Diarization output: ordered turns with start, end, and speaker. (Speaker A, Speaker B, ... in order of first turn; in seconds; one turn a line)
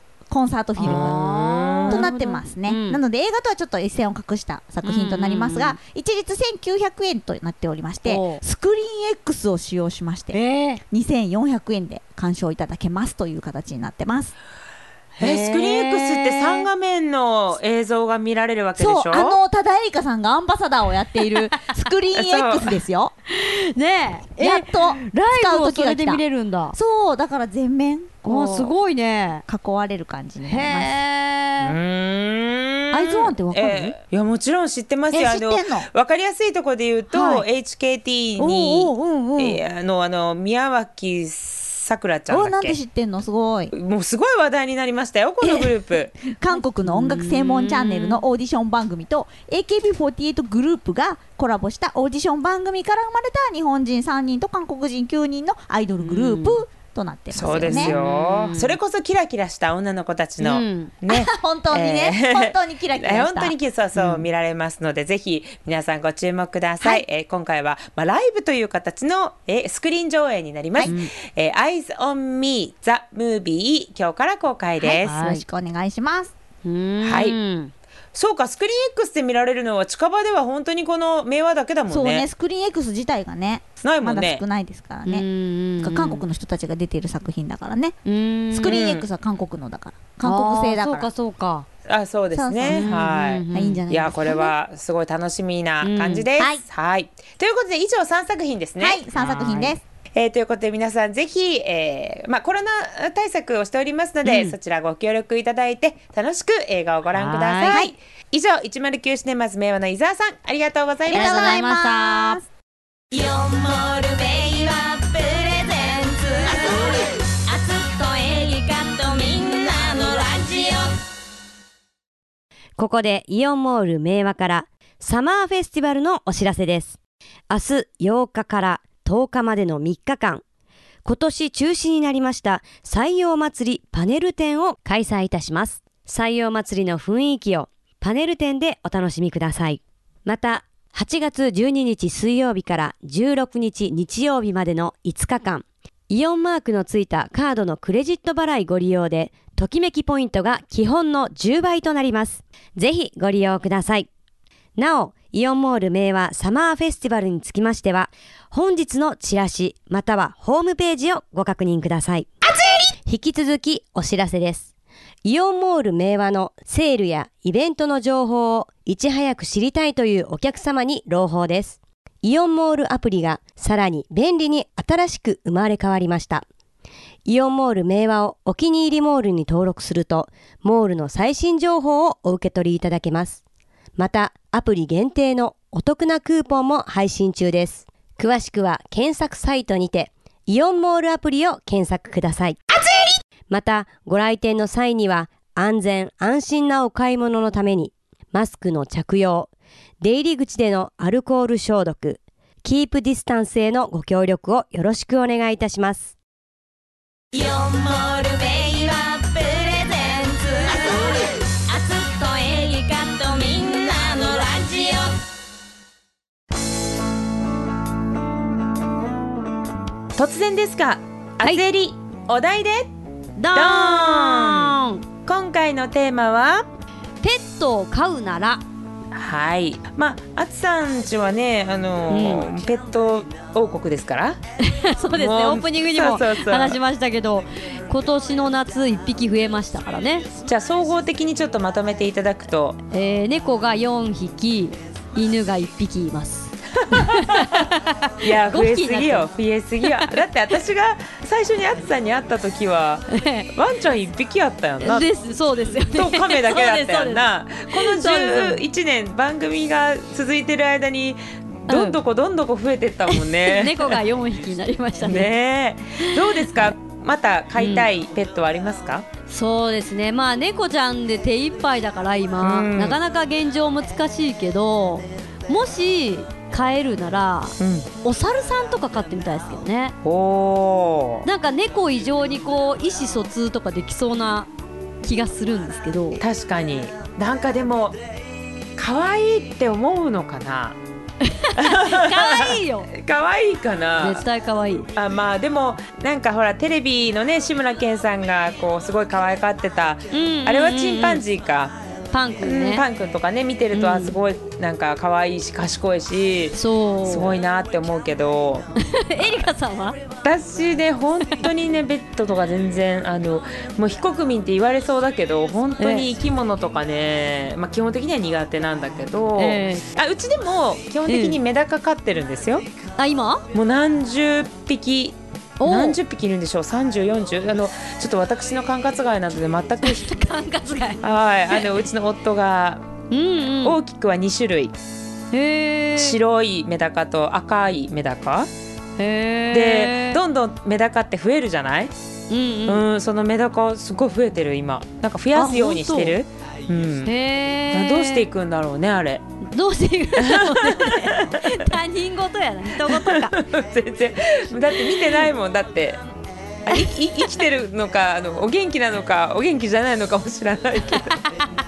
Speaker A: 0.3-1.2
Speaker B: 0.8-3.0
Speaker C: 0.8-2.1
Speaker A: 1.9-14.3
Speaker B: 4.8-5.8
Speaker B: 8.0-8.4
Speaker B: 10.3-10.8
Speaker B: 15.1-16.7
Speaker C: 15.2-19.4
Speaker A: 18.8-23.1
Speaker B: 21.2-21.7
Speaker C: 22.1-22.8
Speaker B: 23.3-26.8
Speaker A: 24.4-26.2
Speaker A: 26.7-28.7
Speaker B: 28.2-29.4
Speaker A: 29.5-31.0
Speaker B: 30.4-31.8
Speaker C: 31.6-42.8
Speaker A: 32.9-33.9
Speaker A: 35.1-35.9
Speaker A: 37.1-37.4
Speaker A: 38.4-39.6
Speaker A: 42.3-43.7
Speaker C: 43.7-46.1
Speaker A: 45.4-45.7
Speaker A: 46.2-57.9
Speaker B: 46.5-48.2
Speaker B: 56.0-56.6
Speaker C: 57.3-75.2
Speaker B: 57.7-58.8
Speaker B: 60.4-60.9
Speaker A: 61.1-63.5
Speaker B: 64.0-64.2
Speaker B: 70.8-71.1
Speaker A: 74.8-76.3
Speaker B: 75.0-75.4
Speaker B: 76.6-77.7
Speaker C: 77.0-77.3
Speaker C: 78.1-82.2
Speaker A: 81.9-85.2
Speaker C: 83.8-84.4
Speaker B: 85.0-86.2
Speaker A: 85.8-88.0
Speaker B: 88.0-88.8
Speaker A: 88.5-91.1
Speaker C: 88.7-89.1
Speaker B: 90.2-91.7
Speaker C: 91.9-99.0
Speaker A: 92.3-92.9
Speaker B: 92.6-93.8
Speaker A: 93.5-94.5
Speaker B: 95.8-96.3
Speaker A: 98.8-99.8
Speaker B: 99.2-99.7
Speaker C: 100.1-111.6
Speaker B: 104.2-104.5
Speaker B: 107.2-107.8
Speaker A: 107.7-107.9
Speaker A: 111.1-112.4
Speaker B: 111.1-112.3
Speaker D: 113.1-121.0
Speaker E: 122.8-127.0
Speaker E: 127.5-130.4
Speaker E: 131.0-154.1
Speaker E: 154.8-162.3
Speaker E: 162.9-164.7
Speaker E: 165.2-176.4
Speaker E: 177.2-183.4
Speaker E: 183.9-192.6
Speaker E: 193.5-199.5
Speaker E: 200.0-206.1
Speaker D: 207.3-215.2
Speaker C: 220.1-222.9
Speaker B: 223.4-225.0
Speaker C: 223.5-226.7
Speaker B: 227.2-228.6
Speaker C: 229.1-234.4
Speaker B: 232.1-232.5
Speaker B: 234.6-240.2
Speaker C: 235.1-236.8
Speaker C: 240.4-242.8
Speaker B: 242.9-249.3
Speaker C: 246.9-247.7
Speaker C: 248.2-255.1
Speaker B: 249.8-250.2
Speaker B: 253.1-253.5
Speaker B: 254.8-258.6
Speaker C: 255.9-264.0
Speaker B: 261.7-262.0
Speaker B: 263.1-265.3
Speaker C: 265.0-269.1
Speaker B: 266.0-266.7
Speaker B: 267.6-267.9
Speaker B: 269.3-280.0
Speaker C: 272.4-273.0
Speaker C: 277.6-277.9
Speaker C: 280.0-281.2
Speaker B: 281.2-284.5
Speaker B: 285.0-286.2
Speaker C: 286.2-288.0
Speaker C: 288.8-290.8
Speaker B: 291.2-292.9
Speaker C: 291.6-294.2
Speaker B: 294.0-294.9
Speaker C: 294.9-301.8
Speaker B: 300.1-301.2
Speaker B: 302.1-302.8
Speaker C: 302.4-308.7
Speaker B: 303.7-304.2
Speaker B: 306.5-307.4
Speaker B: 308.8-310.0
Speaker C: 310.2-322.6
Speaker B: 315.8-316.1
Speaker B: 319.4-319.9
Speaker B: 321.1-321.4
Speaker B: 323.0-323.5
Speaker C: 323.5-330.2
Speaker B: 325.6-326.0
Speaker B: 329.8-331.7
Speaker C: 331.0-332.9
Speaker B: 333.1-333.8
Speaker C: 333.6-334.8
Speaker B: 335.3-336.2
Speaker C: 336.0-338.5
Speaker B: 339.0-340.2
Speaker C: 339.5-341.9
Speaker B: 342.3-342.8
Speaker C: 342.6-347.1
Speaker B: 345.3-346.2
Speaker B: 347.0-348.2
Speaker C: 347.7-349.2
Speaker B: 349.5-353.4
Speaker C: 350.2-351.6
Speaker C: 352.8-356.0
Speaker C: 356.6-361.1
Speaker B: 361.1-361.5